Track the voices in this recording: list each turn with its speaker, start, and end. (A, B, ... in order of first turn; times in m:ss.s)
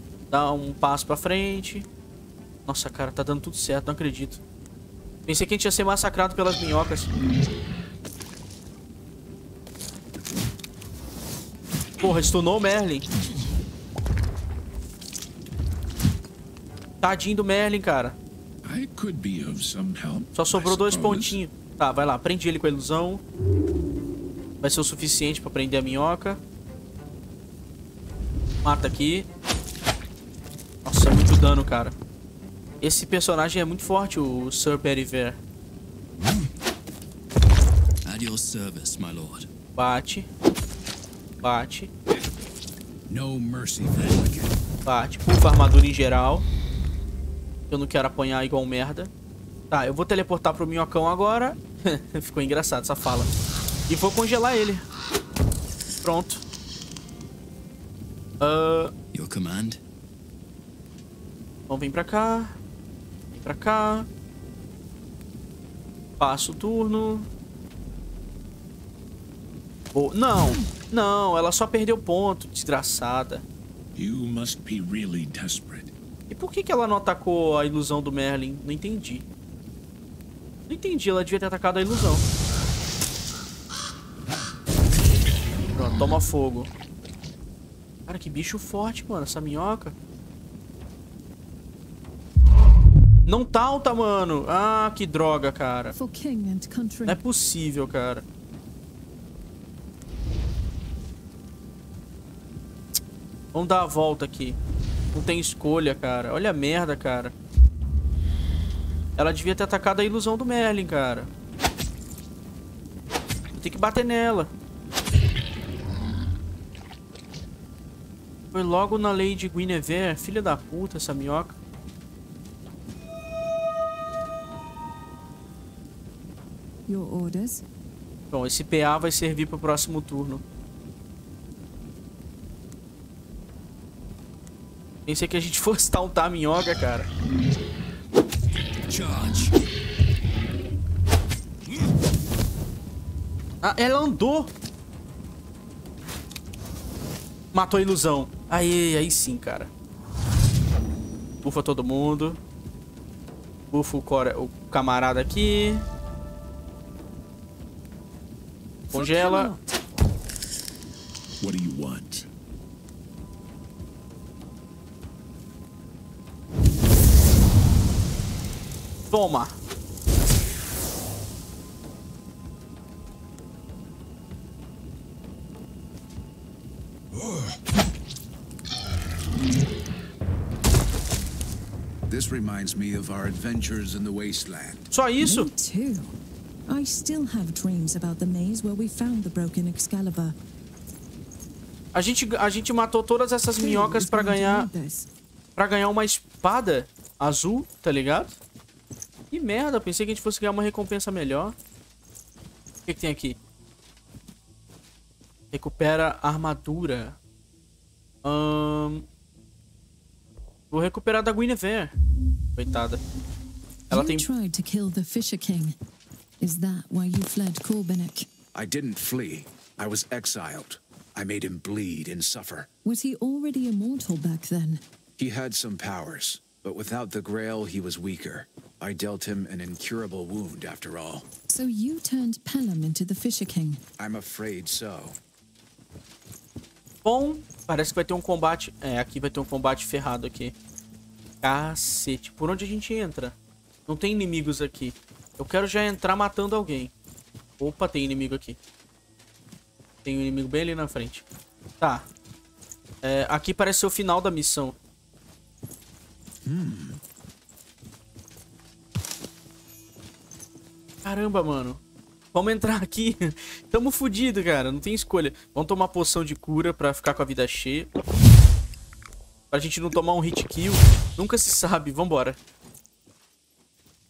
0:00.3-0:01.9 A
0:02.6-0:04.4 A
0:05.3-0:07.1 A
0:12.0-0:13.0 A
0:17.0-0:18.2 A
0:18.6-0:21.4 B
0:20.3-0:23.2 A
0:24.6-0:26.4 A
0:28.6-0:29.3 A
0:30.8-0:32.0 A
0:32.8-0:35.4 A
0:38.0-0:39.5 C
0:39.8-0:40.3 A
0:41.4-0:41.9 A
0:43.1-0:44.6 D
0:44.8-0:46.5 A
0:47.7-0:49.1 A
0:49.7-0:53.3 A
0:53.9-0:54.8 A
0:56.0-0:56.4 A
0:58.4-0:58.9 A
0:59.1-0:59.8 C
1:01.7-1:02.6 A
1:03.3-1:04.1 A
1:06.2-1:07.3 A
1:09.9-1:13.4 A
1:14.0-1:15.9 B
1:16.3-1:19.2 A
1:20.7-1:22.2 A
1:25.7-1:26.7 A
1:28.1-1:29.9 A
1:33.3-1:35.9 A
1:35.9-1:37.2 E
1:37.0-1:38.2 A
1:43.5-1:44.6 A
1:45.1-1:47.3 A
1:49.2-1:51.3 A
1:53.6-1:54.5 A
1:58.5-2:01.6 A
2:06.9-2:07.6 E
2:08.3-2:10.4 A
2:15.0-2:17.1 A
2:18.9-2:19.5 C
2:23.6-2:24.5 A
2:27.5-2:29.7 A
2:31.4-2:32.4 A
2:33.7-2:35.8 A
2:38.9-2:39.8 E
2:38.9-2:39.5 A
2:41.4-2:42.3 B
2:49.1-2:49.5 A
3:02.1-3:04.9 D
3:04.9-3:05.5 A
3:05.2-3:06.1 E
3:06.7-3:10.4 E
3:11.9-3:14.7 A
3:13.6-3:15.1 E
3:15.6-3:18.4 A
3:19.3-3:21.5 A
3:22.8-3:23.4 A
3:25.5-3:27.2 A
3:28.2-3:29.1 A
3:30.7-3:31.9 A
3:32.6-3:33.0 A
3:33.9-3:34.2 A
3:33.9-3:35.7 E
3:36.4-3:38.3 E
3:38.5-3:42.7 D
3:42.8-3:44.8 E
3:45.2-3:51.2 D
3:51.5-3:53.8 E
3:54.0-3:55.2 D
3:57.0-4:00.5 A
4:01.4-4:03.3 A
4:03.9-4:06.9 A
4:07.6-4:08.6 A
4:10.0-4:11.2 A
4:11.8-4:12.0 A
4:13.0-4:14.8 A
4:16.4-4:17.0 D
4:21.0-4:21.8 A
4:22.3-4:27.9 A
4:29.5-4:32.4 A